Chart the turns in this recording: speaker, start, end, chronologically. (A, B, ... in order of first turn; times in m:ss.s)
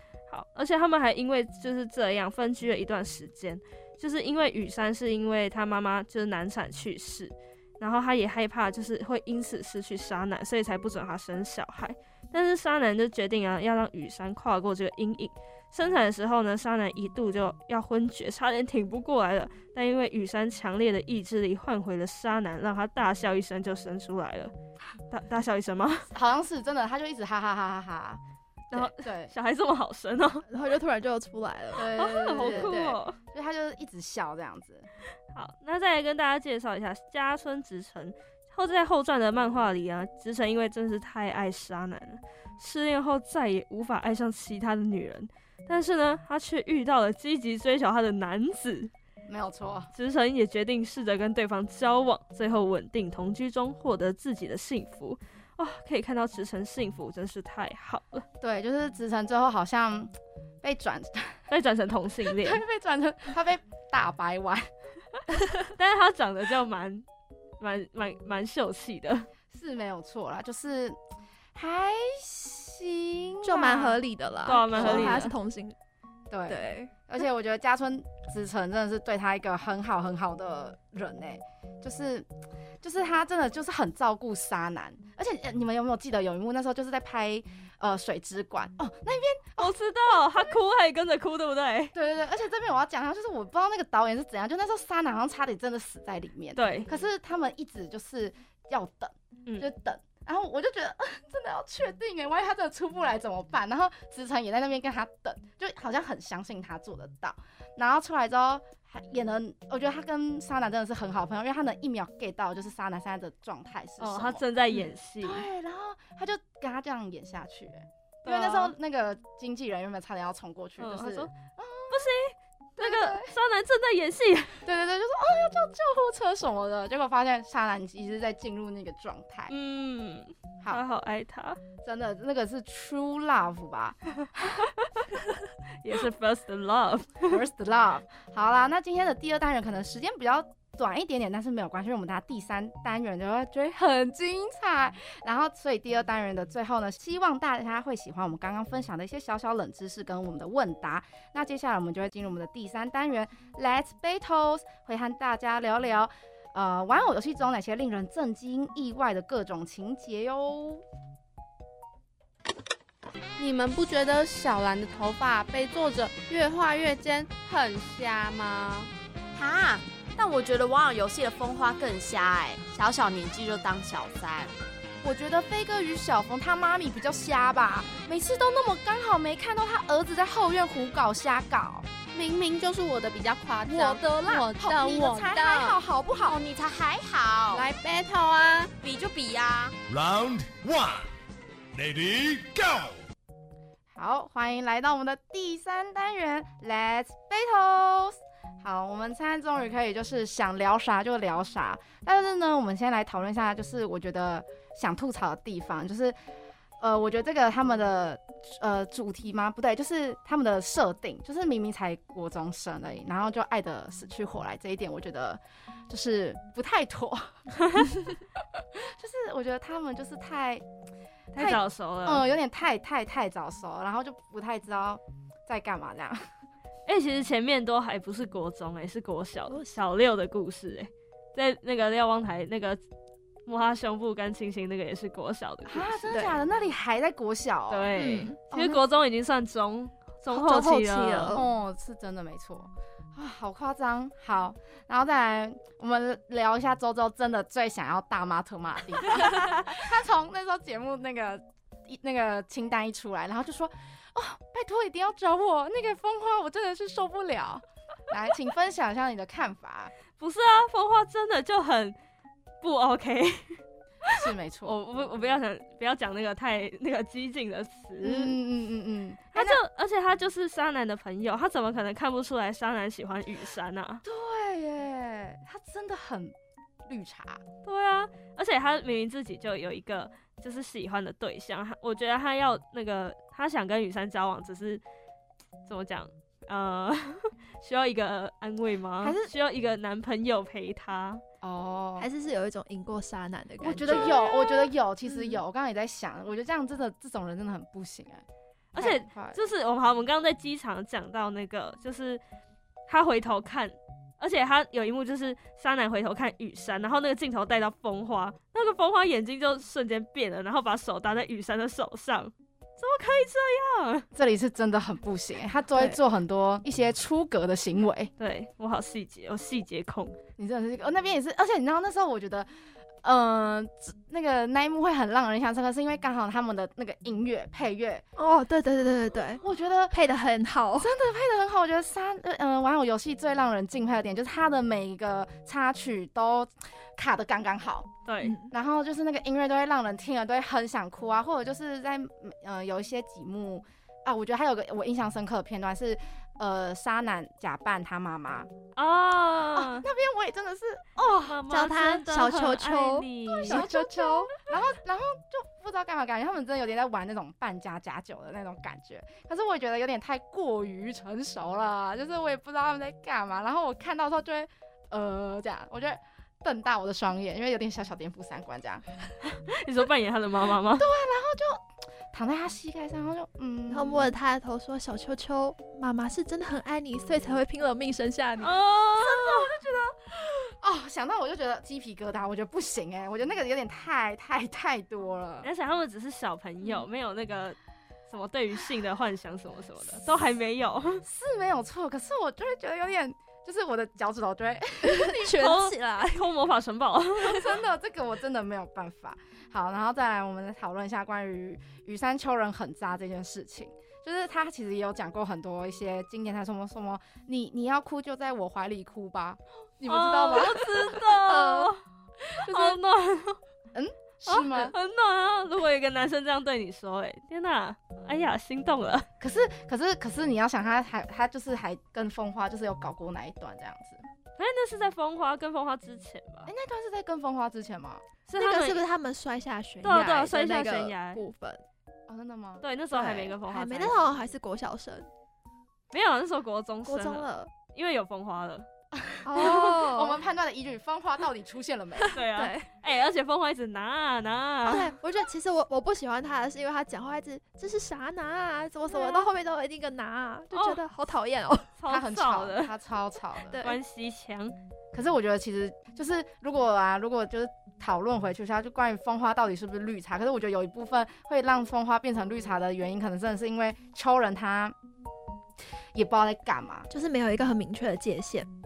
0:00.3-0:24.5 A
0:25.1-0:26.1 A
0:26.1-0:28.2 B
0:28.7-0:30.4 A
0:28.7-0:29.3 B
0:30.5-0:33.0 C
0:31.8-0:34.9 B
0:31.9-0:33.2 A
0:35.3-0:48.9 A
0:49.3-0:49.9 B
0:49.9-0:58.2 A
0:58.4-1:01.4 B
1:01.5-1:02.6 A
1:02.4-1:04.7 B
1:05.7-1:07.0 A
1:07.6-1:09.3 A
1:09.5-1:11.0 B
1:11.6-1:14.0 B
1:13.4-1:15.8 C
1:14.5-1:15.3 A
1:14.8-1:15.2 B
1:16.3-1:22.3 B
1:16.5-1:16.9 C
1:22.8-1:30.5 B
1:29.6-1:32.0 A
1:31.9-2:02.0 B
1:36.6-1:36.9 A
1:54.0-1:55.5 A
1:58.2-1:58.7 A
2:00.8-2:01.3 A
2:01.9-2:04.6 A
2:02.8-2:03.3 B
2:04.6-2:09.5 B
2:09.5-2:11.6 A
2:11.8-2:14.7 B
2:15.8-2:17.4 A
2:17.3-2:40.8 B
2:43.4-2:48.9 D
2:49.4-2:54.5 E
2:55.0-3:01.9 B
3:02.1-3:05.8 D
3:03.7-3:06.4 B
3:06.2-3:07.7 E
3:07.5-3:08.7 D
3:08.8-3:09.8 E
3:09.9-3:11.1 F
3:11.7-3:13.0 F
3:14.0-3:26.2 B
3:26.8-3:37.4 B
3:38.8-3:40.6 B
3:41.3-3:42.2 A
3:41.4-3:46.2 B
3:46.9-3:52.8 A
3:53.5-3:56.2 A
3:55.7-3:57.9 B
3:57.7-4:01.4 A
3:58.0-3:58.4 C
3:58.5-3:58.8 B
4:00.3-4:01.4 C
4:01.3-4:19.9 B
4:20.2-4:22.0 A
4:22.6-4:28.4 A
4:24.1-4:24.8 B
4:28.0-4:29.6 B
4:29.3-4:34.0 A
4:34.0-4:36.4 B
4:36.9-4:37.4 B
4:37.6-4:44.8 A
4:45.7-4:51.2 A
4:49.0-4:49.3 B
4:51.4-4:52.1 B
4:52.0-4:54.3 C
4:53.6-4:58.2 B
4:53.9-4:54.2 A
4:58.7-5:02.2 A
4:58.8-4:59.4 B
5:02.9-5:14.1 A
5:14.2-5:18.1 B
5:18.2-5:20.2 A
5:20.4-5:22.5 B
5:23.0-5:28.0 B
5:28.2-5:30.9 C
5:29.4-5:30.0 B
5:30.8-5:37.9 B
5:38.1-5:38.4 A
5:38.2-5:38.5 C
5:38.5-5:48.5 B
5:48.8-5:49.9 A
5:49.5-5:51.4 B
5:51.2-5:53.7 A
5:51.5-5:54.3 C
5:53.3-6:08.8 B
6:09.3-6:10.9 A
6:10.8-6:14.1 B
6:13.7-6:18.6 C
6:18.4-6:19.6 A
6:19.0-6:25.5 B
6:25.4-6:27.6 A
6:28.1-6:31.0 A
6:31.0-6:35.2 B
6:34.8-6:36.3 C
6:35.2-6:37.6 A
6:37.2-6:51.6 B
6:49.9-6:51.8 A
6:52.3-6:53.4 A
6:52.4-6:52.8 B
6:53.7-6:54.7 B
6:54.3-6:59.1 A
6:59.2-7:04.0 B
7:04.4-7:06.5 A
7:06.5-7:08.0 B
7:08.3-7:08.8 A
7:08.4-7:11.6 C
7:09.8-7:11.2 A
7:12.1-7:12.6 B
7:12.6-7:14.0 A
7:12.9-7:15.1 C
7:15.9-7:18.7 A
7:16.8-7:17.5 C
7:19.0-7:22.2 B
7:19.2-7:20.2 C
7:19.4-7:19.8 A
7:22.1-7:24.9 A
7:22.3-7:22.7 C
7:24.7-7:31.8 C
7:30.5-7:30.8 A
7:31.8-7:32.7 A
7:31.9-7:33.6 B
7:33.5-7:33.8 C
7:33.6-7:34.6 A
7:34.9-7:44.8 B
7:46.0-7:46.9 B
7:46.9-7:48.5 C